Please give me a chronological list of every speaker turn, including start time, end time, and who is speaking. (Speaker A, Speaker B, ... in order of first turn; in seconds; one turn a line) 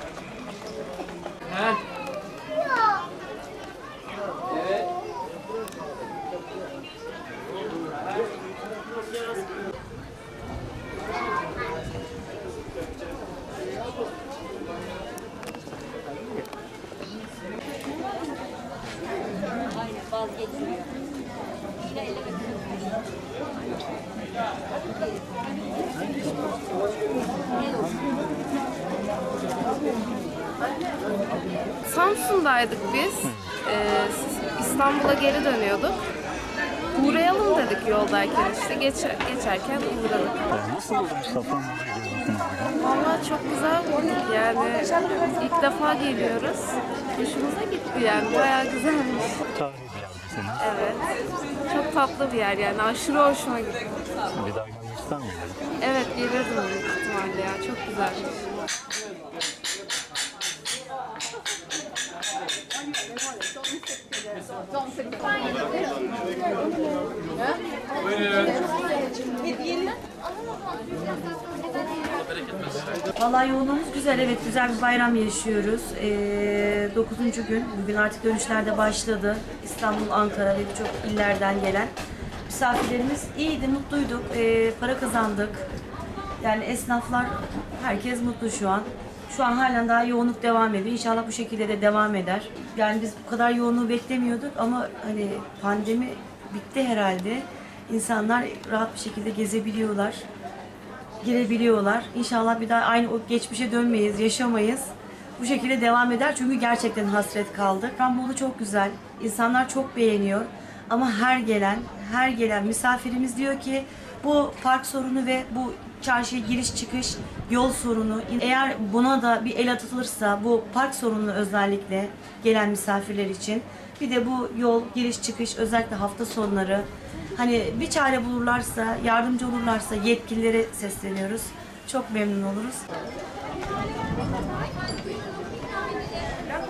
Speaker A: 31.9-36.0
Speaker A: 37.0-40.4
Speaker B: 40.5-42.8
Speaker A: 42.8-49.4
Speaker B: 49.5-50.7
Speaker A: 50.6-51.1
Speaker A: 51.7-54.0
Speaker B: 54.3-55.6
Speaker A: 55.8-58.3
Speaker C: 73.2-81.9
Speaker C: 82.5-85.7
Speaker C: 86.4-100.2
Speaker C: 101.2-132.8